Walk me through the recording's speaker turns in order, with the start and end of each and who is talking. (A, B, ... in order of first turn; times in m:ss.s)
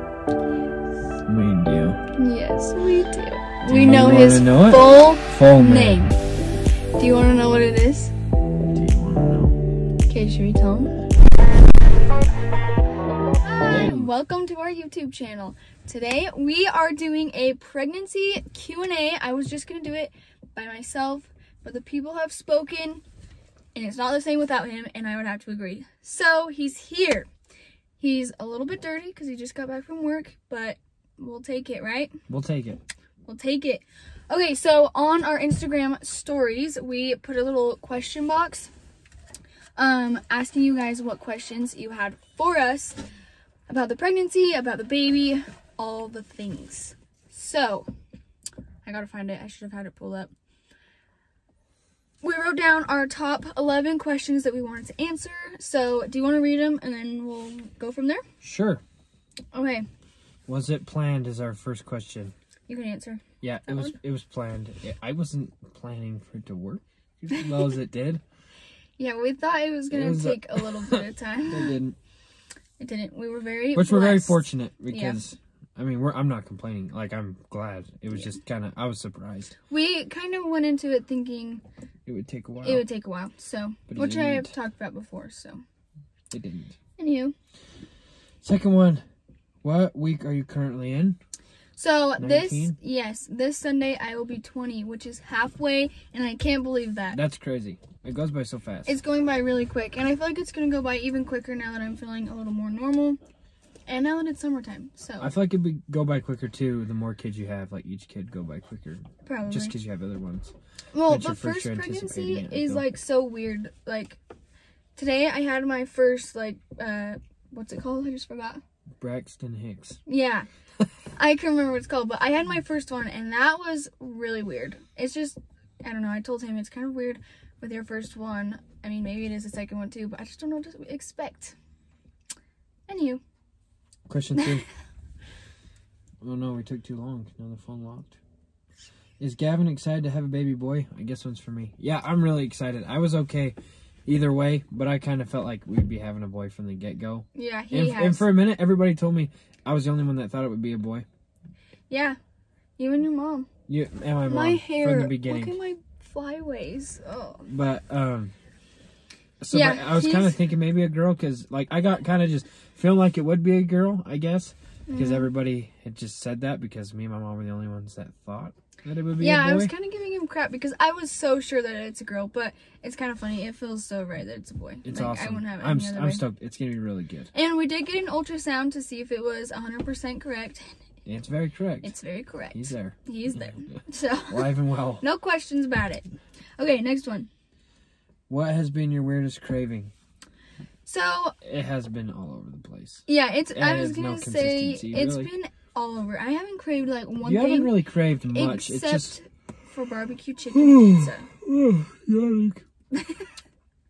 0:01.3-0:02.0 A
0:02.2-0:06.2 B
0:03.7-0:06.2 A
0:07.0-0:08.1 B
0:08.7-0:09.6 A
0:10.1-0:10.9 B
0:13.4-0:23.0 B
0:13.7-0:14.1 A
0:23.8-0:27.3 B
0:28.0-0:32.1 B
0:32.3-0:32.8 A
0:33.2-0:38.7 B
0:39.8-0:43.0 B
0:43.7-0:47.9 B
0:48.8-0:50.3 B
0:52.2-0:58.2 B
0:58.4-0:58.8 A
0:59.5-0:59.9 B
1:00.5-1:02.3 A
1:02.7-1:04.0 B
1:03.4-1:08.2 A
1:07.3-1:07.8 B
1:09.0-1:11.8 B
1:09.9-1:12.0 A
1:12.8-1:15.2 B
1:13.8-1:19.6 A
1:19.7-1:21.6 B
1:22.1-1:22.9 A
1:22.6-1:25.6 B
1:23.9-1:24.5 A
1:26.3-1:26.8 A
1:27.0-1:27.4 B
1:28.4-1:29.0 A
1:29.6-1:31.2 A
1:31.8-1:37.2 B
1:32.2-1:32.8 A
1:37.1-1:39.0 A
1:38.9-1:43.2 B
1:43.9-1:45.3 B
1:45.2-1:50.5 A
1:49.3-1:49.8 B
1:50.9-1:54.2 B
1:51.1-1:52.8 A
1:55.0-1:58.6 B
1:59.0-2:00.0 A
2:00.1-2:00.5 B
2:01.2-2:11.6 B
2:12.9-2:13.2 B
2:14.1-2:14.7 A
2:14.4-2:14.7 B
2:16.2-2:18.2 A
2:19.2-2:31.1 A
2:27.4-2:28.3 B
2:31.9-2:32.2 B
2:32.8-2:33.5 B
2:33.7-2:35.6 A
2:34.3-2:37.5 B
2:37.5-2:38.3 A
2:39.4-2:49.7 A
2:39.5-2:40.4 B
2:44.9-2:45.3 B
2:49.2-2:56.2 B
2:54.8-2:57.3 A
2:57.3-3:00.8 B
3:01.1-3:01.9 A
3:01.8-3:06.0 B
3:02.5-3:05.0 A
3:06.6-3:07.3 B
3:08.3-3:09.9 A
3:10.9-3:11.4 B
3:11.4-3:15.3 A
3:13.1-3:21.3 B
3:17.2-3:19.2 A
3:20.5-3:22.6 A
3:22.9-3:23.3 B